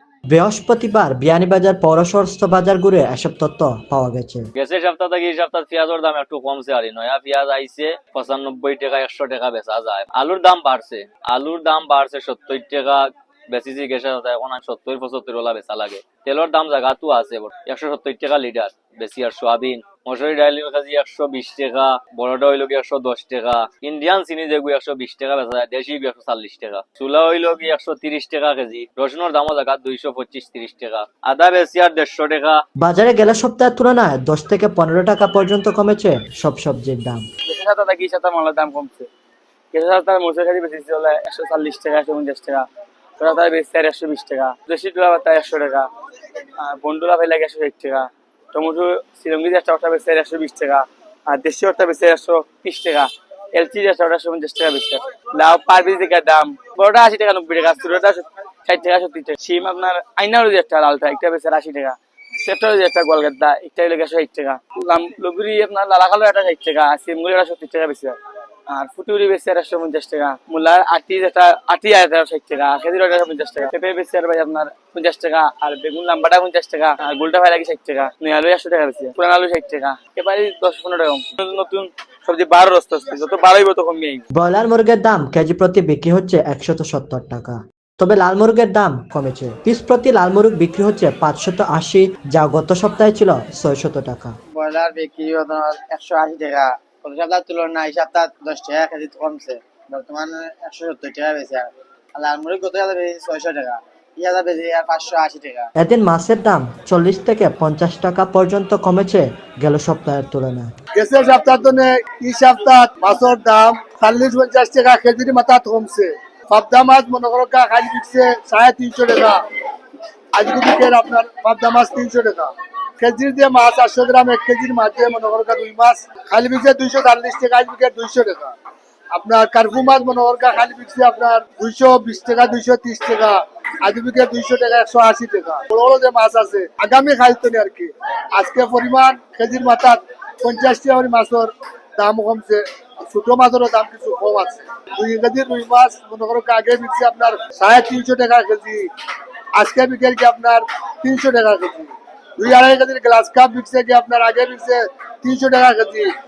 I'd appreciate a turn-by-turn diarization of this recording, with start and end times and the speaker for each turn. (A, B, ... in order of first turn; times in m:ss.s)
0:00.3-0:04.5 A
0:04.6-0:32.6 B
0:32.8-0:37.2 A
0:37.4-0:39.1 C
0:39.7-0:42.7 C
0:43.2-0:45.9 C
0:46.6-1:08.2 C
1:08.7-1:24.2 C
1:24.3-1:34.4 A
1:34.5-1:45.7 D
1:45.8-1:50.7 A
1:51.0-1:59.4 E
2:00.4-2:02.5 E
2:03.0-2:08.5 E
2:09.1-2:28.9 E
2:29.6-2:36.1 E